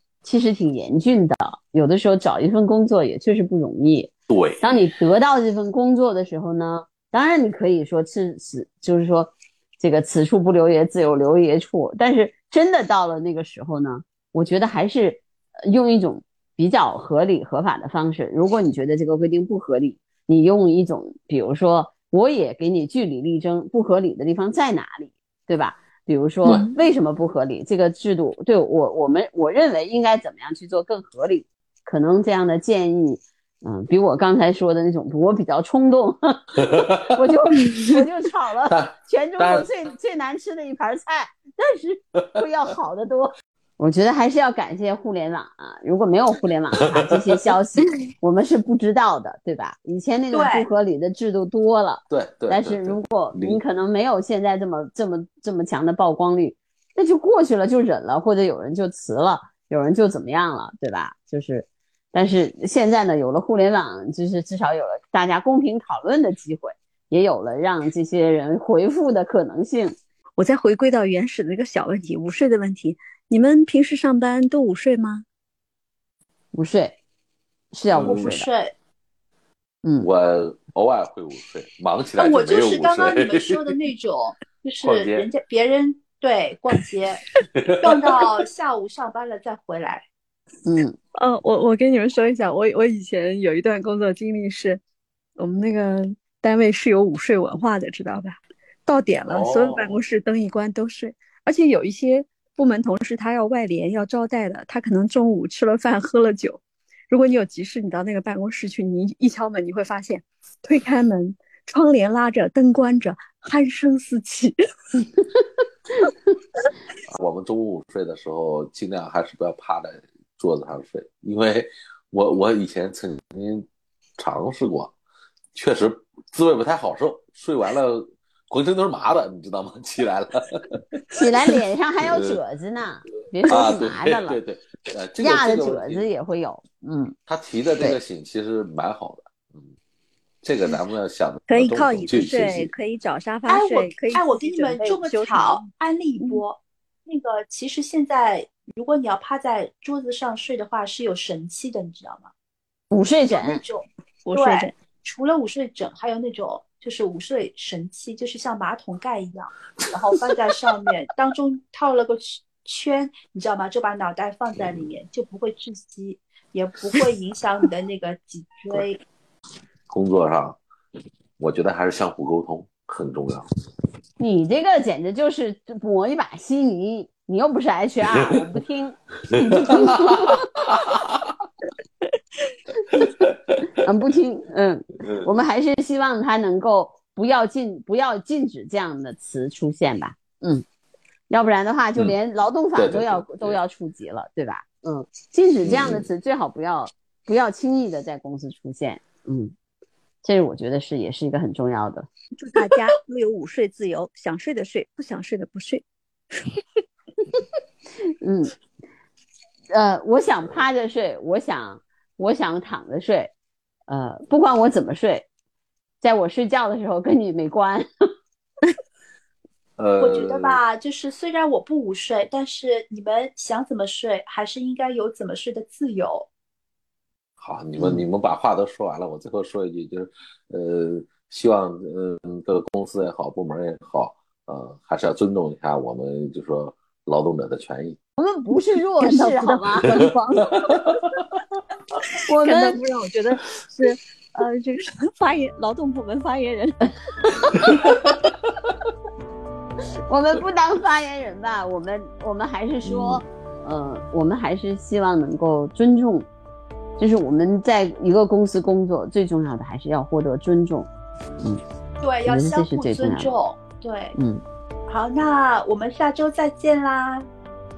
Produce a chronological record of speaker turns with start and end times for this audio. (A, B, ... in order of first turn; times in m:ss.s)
0:00.2-0:36.5 A
0:04.3-0:04.9 B
0:26.4-0:26.7 C
0:36.6-0:37.1 B
0:37.1-1:10.0 A
0:38.7-0:39.7 B
0:50.3-0:50.7 D
0:52.1-0:53.6 B
1:10.4-1:15.2 C
1:16.5-1:17.0 A
1:17.7-1:18.5 A
1:17.9-1:18.3 B
1:18.0-1:18.7 D
1:20.0-1:23.6 B
1:22.2-1:27.3 D
1:24.8-1:25.3 B
1:27.6-1:27.9 B
1:27.8-1:30.0 D
1:30.6-1:31.0 A
1:31.2-1:34.8 C
1:35.4-1:55.0 C
1:39.3-1:40.0 B
1:57.1-2:03.7 B
2:04.2-2:04.9 B
2:05.5-2:10.8 B
2:11.1-2:14.4 A
2:12.0-2:12.4 B
2:13.4-2:16.0 B
2:15.2-2:17.1 A
2:17.3-2:19.7 B
2:20.4-2:22.7 B
2:21.5-2:25.7 C
2:23.5-2:32.3 D
2:32.9-2:33.6 A
2:33.3-2:49.0 D
2:34.2-2:34.7 C
2:49.9-2:50.6 B
2:51.4-2:53.4 B
2:54.2-3:00.5 A
2:59.7-3:00.0 B
3:00.8-3:01.1 B
3:03.8-3:10.6 A
3:05.0-3:05.3 B
3:11.3-3:19.5 A
3:12.8-3:13.6 B
3:15.6-3:16.1 B
3:20.2-3:22.1 A
3:22.4-3:25.8 C
3:28.2-3:28.5 A
3:29.7-3:33.3 A
3:33.9-3:35.3 A
3:36.0-3:37.9 A
3:39.8-3:40.6 B
3:40.0-3:46.3 D
3:47.4-3:58.0 B
3:47.8-3:48.0 A
3:58.2-3:59.9 A
3:59.0-4:00.9 C
4:02.2-4:02.8 A
4:02.4-4:06.8 C
4:07.7-4:08.1 B
4:10.1-4:16.3 A
4:12.8-4:13.2 B
4:17.0-4:20.9 A
4:22.0-4:24.2 D
4:22.3-4:23.3 A
4:24.2-4:24.4 A
4:24.9-4:27.2 D